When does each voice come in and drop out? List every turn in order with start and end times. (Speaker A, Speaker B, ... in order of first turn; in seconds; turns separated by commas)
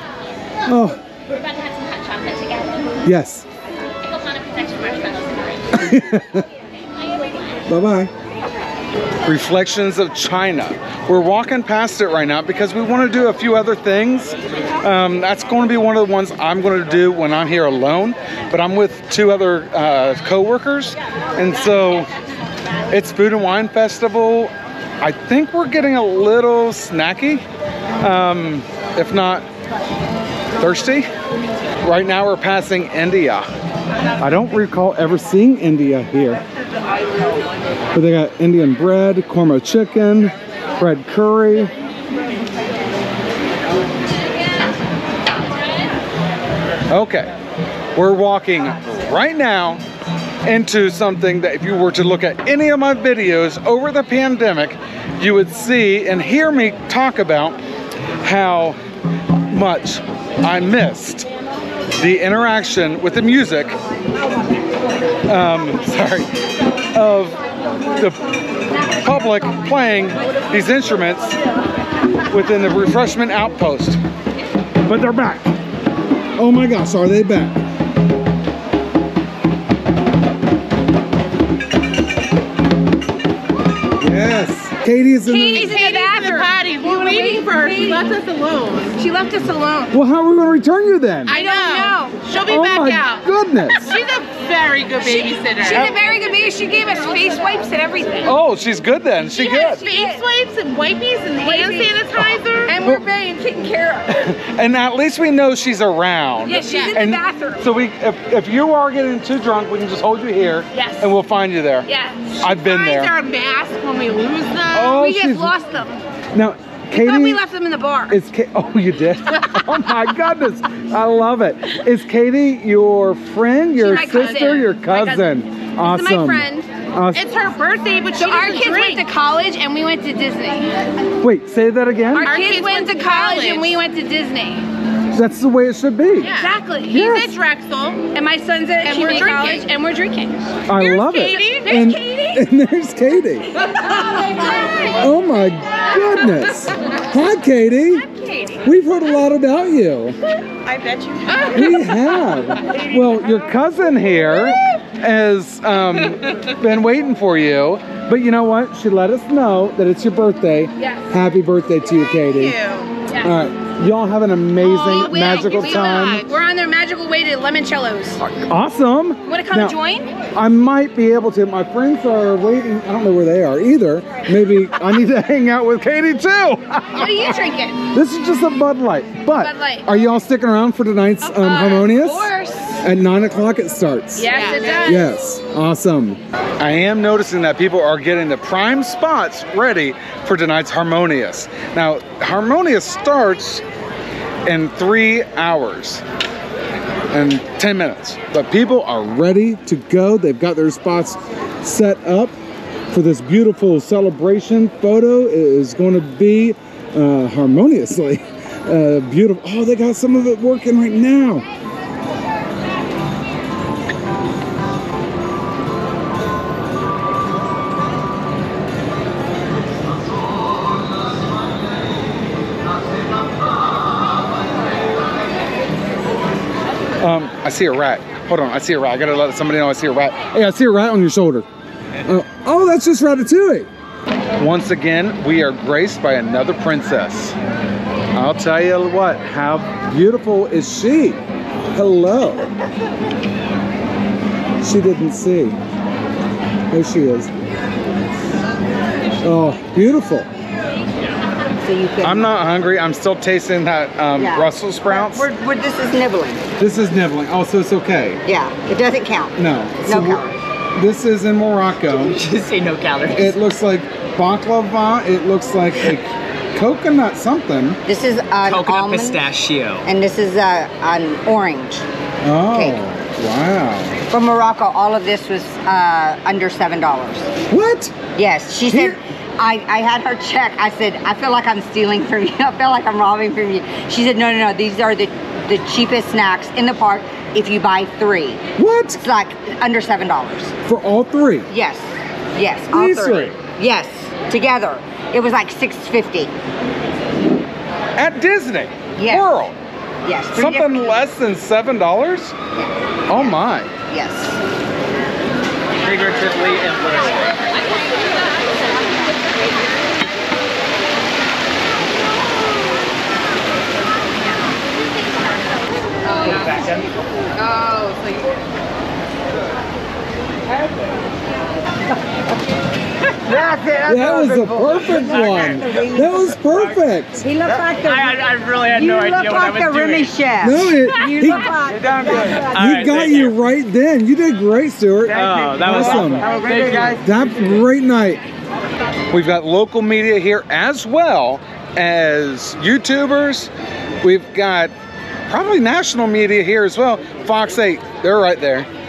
Speaker A: 0.7-1.0, Speaker B: 1.3-3.0, Speaker A: 3.0-3.5, Speaker B: 4.0-5.9, Speaker A: 5.7-6.5, Speaker A: 7.7-8.1, Speaker A: 9.2-22.1, Speaker A: 22.9-27.4, Speaker A: 28.0-29.4, Speaker A: 30.6-31.1, Speaker A: 31.8-33.5, Speaker A: 34.2-36.4, Speaker A: 37.9-41.7, Speaker A: 46.9-47.3, Speaker A: 47.9-49.8, Speaker A: 50.4-57.6, Speaker A: 58.2-58.8, Speaker A: 59.5-61.3, Speaker A: 62.0-63.8, Speaker A: 65.2-66.3, Speaker A: 66.9-67.4, Speaker A: 69.0-71.3, Speaker A: 72.3-74.0, Speaker A: 74.8-75.5, Speaker A: 76.3-77.6, Speaker A: 84.0-85.8, Speaker C: 85.2-88.2, Speaker D: 85.5-89.0, Speaker C: 89.0-90.0, Speaker A: 89.9-91.4, Speaker D: 91.2-96.0, Speaker C: 91.3-92.3, Speaker A: 92.4-93.8, Speaker C: 95.0-98.3, Speaker A: 95.7-96.0, Speaker A: 98.2-99.8, Speaker C: 99.2-100.3, Speaker D: 99.8-102.8, Speaker C: 101.4-104.3, Speaker A: 104.1-111.9, Speaker C: 106.4-107.7, Speaker D: 106.6-107.0, Speaker C: 110.7-111.1, Speaker C: 111.8-112.4, Speaker A: 112.4-113.2, Speaker D: 112.4-115.0, Speaker A: 114.7-115.5, Speaker C: 114.7-116.0, Speaker A: 116.3-117.4, Speaker C: 116.9-118.2, Speaker A: 118.1-127.3, Speaker C: 123.8-126.7, Speaker D: 127.1-129.1, Speaker C: 127.3-130.8, Speaker A: 131.2-132.3, Speaker C: 132.1-134.7, Speaker D: 132.2-133.8, Speaker A: 135.1-136.3, Speaker D: 136.2-138.1, Speaker C: 136.2-137.2, Speaker A: 136.9-137.3, Speaker C: 138.0-142.5, Speaker D: 138.8-139.7, Speaker A: 140.7-143.5, Speaker D: 140.8-141.9, Speaker C: 143.7-144.9, Speaker A: 145.0-148.1, Speaker C: 145.9-146.3, Speaker C: 147.9-148.6, Speaker A: 148.6-150.2, Speaker C: 151.2-152.0, Speaker D: 151.3-151.7, Speaker A: 151.5-162.6, Speaker C: 160.8-161.0, Speaker C: 162.1-163.3, Speaker A: 163.2-166.3, Speaker C: 164.6-168.2, Speaker D: 165.4-166.1, Speaker A: 168.2-169.8, Speaker C: 169.2-170.1, Speaker A: 170.3-193.6, Speaker C: 176.9-177.8, Speaker C: 179.3-179.9, Speaker C: 181.2-182.8, Speaker C: 184.2-185.2, Speaker D: 184.2-185.0, Speaker A: 194.4-196.0, Speaker A: 197.1-202.3, Speaker A: 202.9-211.4, Speaker A: 227.0-231.4, Speaker A: 232.0-233.7, Speaker A: 234.4-237.3, Speaker A: 238.1-241.2, Speaker A: 241.7-242.5, Speaker A: 244.6-245.6, Speaker A: 246.7-247.3, Speaker A: 249.2-250.3, Speaker E: 251.6-252.3, Speaker A: 252.0-255.3, Speaker E: 254.1-256.4, Speaker A: 256.6-258.2, Speaker E: 258.2-260.4, Speaker A: 259.4-260.2, Speaker A: 260.8-262.2, Speaker F: 261.9-263.4, Speaker A: 263.1-267.8, Speaker E: 267.9-269.3, Speaker F: 268.4-269.8, Speaker E: 269.8-271.8, Speaker A: 272.2-274.0, Speaker E: 272.5-272.8, Speaker E: 274.1-277.3, Speaker A: 277.5-277.9, Speaker E: 278.1-288.4, Speaker A: 278.7-279.0, Speaker A: 288.6-289.0, Speaker E: 289.0-290.5, Speaker A: 290.6-291.5, Speaker E: 291.5-296.3, Speaker A: 292.7-293.3, Speaker A: 297.9-299.5, Speaker E: 299.0-299.3, Speaker E: 300.0-300.9, Speaker A: 300.3-302.3, Speaker E: 302.5-303.3, Speaker A: 303.1-303.7, Speaker E: 303.9-304.4, Speaker F: 305.7-307.4, Speaker C: 316.1-316.7, Speaker F: 316.2-316.9, Speaker C: 317.4-318.2, Speaker E: 323.2-326.3, Speaker A: 323.9-327.2, Speaker E: 327.2-332.8, Speaker F: 327.5-330.1, Speaker A: 330.4-331.5, Speaker F: 331.8-333.4, Speaker A: 332.5-336.4, Speaker F: 335.1-337.1, Speaker E: 335.1-337.0, Speaker A: 337.0-338.2, Speaker A: 339.1-343.5, Speaker A: 344.0-344.7, Speaker A: 345.3-348.7